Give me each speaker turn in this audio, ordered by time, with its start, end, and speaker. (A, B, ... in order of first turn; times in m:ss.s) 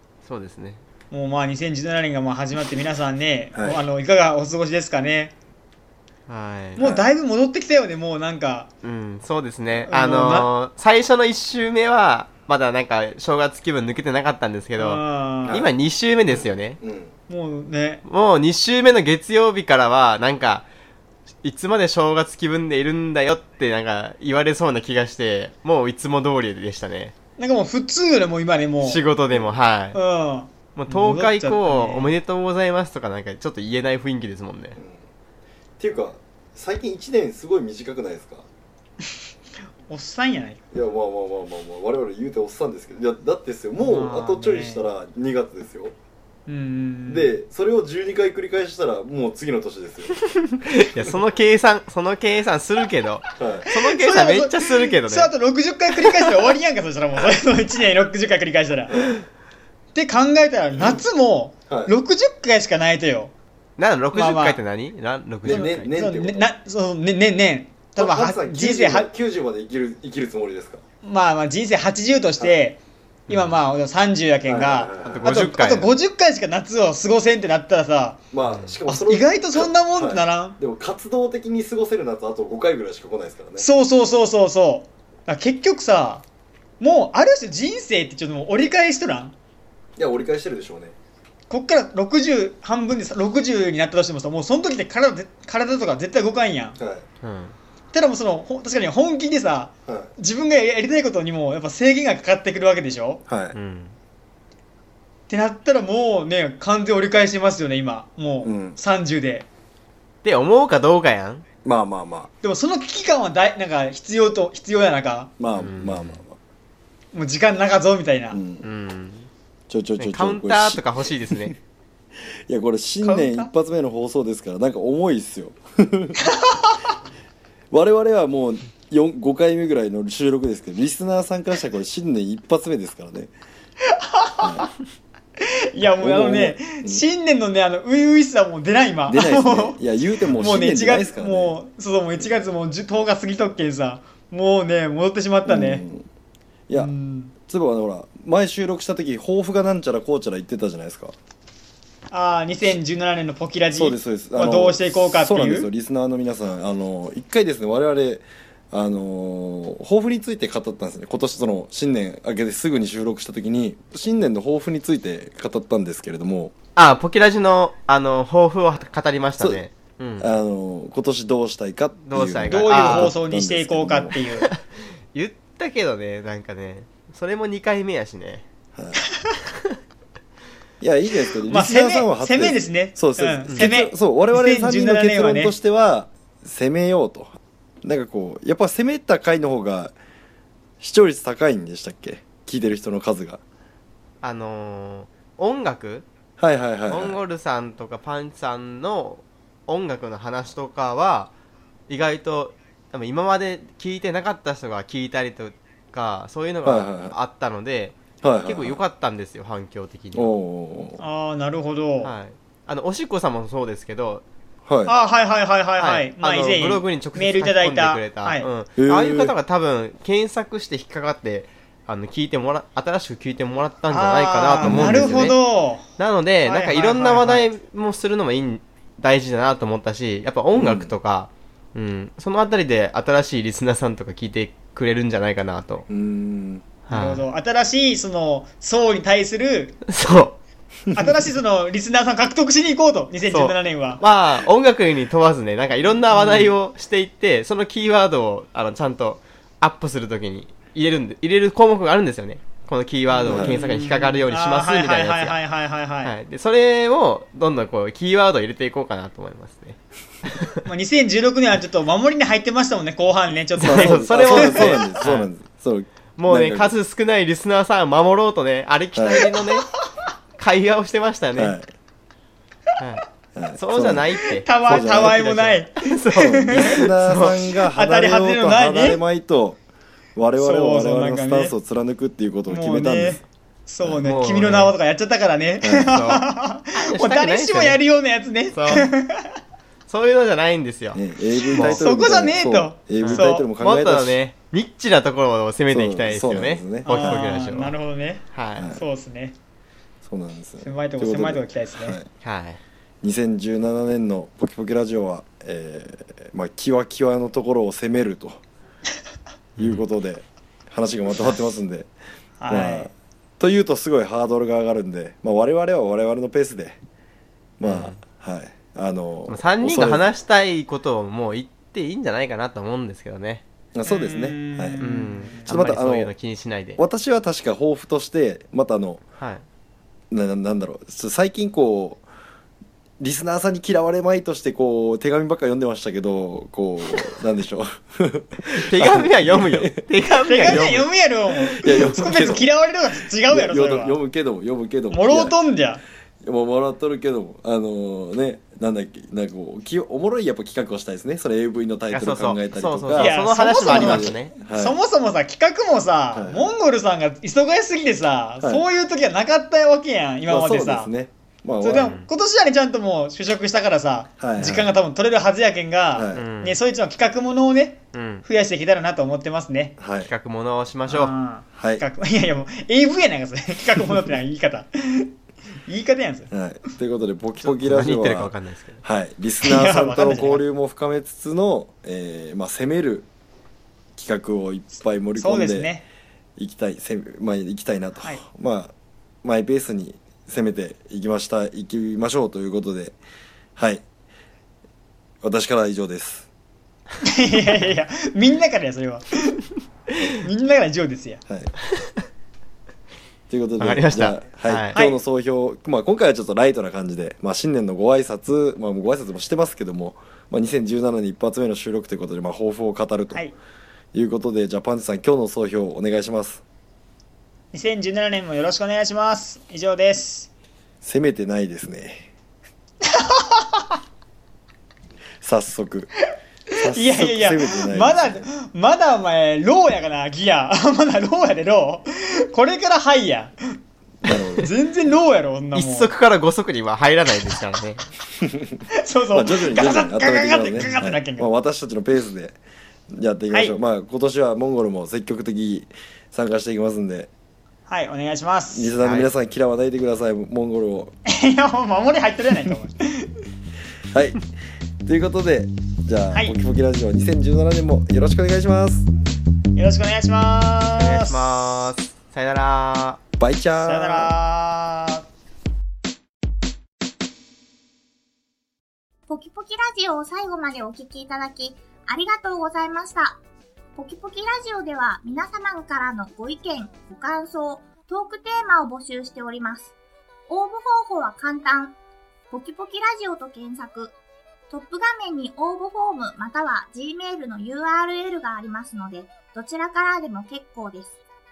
0:00.3-0:00.8 A
0:01.1-0:05.3 B
0:03.6-0:03.8 C
0:06.3-0:06.9 A
0:06.8-0:08.7 B
0:06.8-0:07.1 C
0:08.8-0:16.8 A
0:09.9-0:10.5 B
0:14.8-0:15.6 B
0:15.5-0:15.7 C
0:16.3-0:17.1 C
0:17.3-0:18.0 B
0:18.1-0:20.7 A
0:21.4-0:27.1 A
0:27.4-0:29.0 B
0:28.8-0:30.0 A
0:29.3-0:29.6 C
0:29.9-0:32.1 B
0:30.8-0:34.8 A
0:34.8-0:35.0 C
0:35.8-0:38.5 C
0:39.9-0:40.6 B
0:40.7-0:45.9 C
0:43.8-0:44.8 B
0:46.5-0:47.3 B
0:47.1-0:50.2 C
0:50.6-0:55.3 A
0:53.4-0:53.7 C
0:53.7-0:59.1 B
0:59.9-1:03.3 B
1:01.7-1:01.9 C
1:03.8-1:05.9 A
1:04.1-1:04.6 B
1:05.4-1:06.5 C
1:05.5-1:09.1 B
1:08.0-1:10.8 C
1:11.0-1:18.2 B
1:13.3-1:13.6 A
1:14.5-1:15.2 C
1:15.0-1:15.9 A
1:18.3-1:23.7 C
1:18.5-1:18.8 A
1:18.9-1:20.6 B
1:23.6-1:26.2 B
1:26.8-1:29.3 B
1:30.0-1:30.9 C
1:31.5-1:36.8 B
1:36.8-1:37.0 C
1:37.2-1:37.6 A
1:37.9-1:43.2 B
1:39.9-1:40.1 C
1:43.3-1:43.6 C
1:43.5-1:44.0 A
1:45.3-1:49.5 B
1:48.4-1:48.8 C
1:50.2-1:51.4 A
1:51.6-1:52.3 C
1:52.4-1:55.3 B
1:55.4-1:56.4 C
1:55.6-1:56.2 A
1:57.1-1:58.4 B
1:58.3-1:58.7 C
1:58.6-1:59.3 A
1:59.7-2:00.8 C
2:00.0-2:01.6 A
2:02.5-2:06.2 C
2:03.0-2:03.5 B
2:06.3-2:06.8 B
2:07.7-2:13.3 C
2:13.9-2:14.7 B
2:14.4-2:14.7 C
2:15.4-2:19.8 B
2:15.9-2:17.0 C
2:19.1-2:21.6 C
2:20.4-2:25.8 B
2:25.4-2:26.1 C
2:26.8-2:27.3 B
2:27.4-2:31.2 C
2:32.1-2:35.7 B
2:33.8-2:46.5 C
2:46.8-2:50.3 A
2:50.2-2:54.2 C
2:52.0-2:53.1 A
2:52.5-2:54.5 B
2:55.1-2:58.4 A
3:00.8-3:10.0 C
3:01.5-3:05.6 B
3:10.8-3:13.4 C
3:14.2-3:16.1 A
3:16.4-3:17.2 C
3:16.9-3:21.3 A
3:21.9-3:30.3 A
3:26.6-3:27.2 C
3:28.2-3:28.8 C
3:30.1-3:31.0 C
3:31.0-3:32.1 B
3:32.0-3:34.2 A
3:34.7-3:34.9 C
3:34.9-3:38.5 B
3:35.8-3:45.4 A
3:38.8-3:39.3 C
3:43.9-3:45.9 B
3:44.6-3:45.3 C
3:46.0-3:55.8 A
3:46.4-3:47.5 B
3:50.6-3:50.9 C
3:55.9-3:56.6 C
3:56.9-3:57.3 A
3:56.9-3:59.8 B
3:59.9-4:00.4 A
4:00.9-4:04.0 B
4:03.3-4:15.4 A
4:06.1-4:06.5 B
4:13.1-4:16.1 B
4:13.3-4:13.6 C
4:16.0-4:20.6 A
4:20.7-4:25.0 B
4:23.6-4:25.3 A
4:23.6-4:26.7 C
4:26.2-4:29.7 A
4:29.0-4:29.3 C
4:30.4-4:31.6 A
4:31.4-4:31.7 C
4:32.8-4:37.4 A
4:33.4-4:35.4 C
4:34.4-4:36.9 B
4:36.2-4:39.6 C
4:37.7-4:39.0 B
4:40.2-4:43.2 C
4:40.4-4:41.6 B
4:42.5-4:49.4 B
4:44.0-4:44.8 A
4:45.6-4:46.0 C
4:45.9-4:47.8 A
4:48.5-4:48.9 A
4:49.9-4:51.0 A
4:50.9-4:54.2 C
4:51.5-4:53.5 B
4:51.6-4:51.8 A
4:53.0-4:57.7 A
4:55.7-4:57.2 C
4:56.8-4:59.4 B
4:58.3-4:58.7 A
4:58.6-4:58.8 C
5:00.0-5:02.1 C
5:00.6-5:02.0 B
5:02.2-5:02.6 A
5:03.0-5:08.4 C
5:09.6-5:09.8 A
5:09.6-5:11.9 C
5:12.4-5:12.9 B
5:12.5-5:16.8 C
5:17.6-5:20.1 C
5:17.6-5:18.0 A
5:19.3-5:23.4 A
5:23.8-5:24.9 C
5:23.8-5:25.5 B
5:24.8-5:26.8 A
5:25.4-5:26.2 C
5:26.8-5:29.0 C
5:29.2-5:29.4 A
5:30.1-5:32.0 C
5:33.0-5:39.8 C
5:38.5-5:40.9 A
5:40.2-5:44.0 B
5:41.6-5:42.5 C
5:43.3-5:45.4 C
5:44.9-5:45.8 B
5:46.2-5:54.8 C
5:51.9-5:54.3 A
5:53.0-6:00.9 B
5:56.1-5:56.5 C
6:00.3-6:01.9 C
6:01.6-6:09.8 B
6:01.8-6:02.1 A
6:04.2-6:04.7 C
6:05.9-6:06.3 C
6:06.1-6:06.6 A
6:07.9-6:08.2 A
6:09.8-6:10.1 C
6:10.0-6:11.2 A
6:10.9-6:15.1 B
6:11.6-6:11.8 C
6:15.7-6:16.3 B
6:16.3-6:18.3 C
6:17.4-6:18.8 A
6:18.8-6:23.1 C
6:19.4-6:20.4 B
6:24.0-6:25.7 C
6:25.2-6:25.8 B
6:26.4-6:33.0 C
6:33.6-6:33.8 C
6:35.2-6:36.3 C
6:37.0-6:39.4 B
6:40.2-6:41.2 B
6:43.3-6:53.2 C
6:43.6-6:44.8 A
6:44.7-6:45.0 B
6:53.9-6:56.4 C
6:57.5-7:00.3 B
7:00.8-7:02.1 C
7:03.0-7:03.6 B
7:05.2-7:05.9 C
7:06.5-7:13.4 B
7:06.6-7:08.3 C
7:14.0-7:14.5 C
7:14.4-7:15.9 B
7:15.5-7:17.9 A
7:18.2-7:18.6 C
7:18.7-7:21.3 B
7:19.1-7:22.4 C
7:22.9-7:27.1 C
7:23.3-7:23.6 B
7:27.7-7:28.8 B
7:28.5-7:30.9 C
7:28.8-7:29.1 A
7:31.1-7:33.1 B
7:33.9-7:34.2 C
7:34.8-7:38.9 C
7:39.5-7:41.5 B
7:40.8-7:43.0 A
7:43.2-7:44.1 C
7:43.6-7:45.0 B
7:49.1-7:53.2 D
7:53.8-7:59.7 D
8:00.3-8:01.8 D
8:02.3-8:04.0 D
8:04.5-8:11.0 D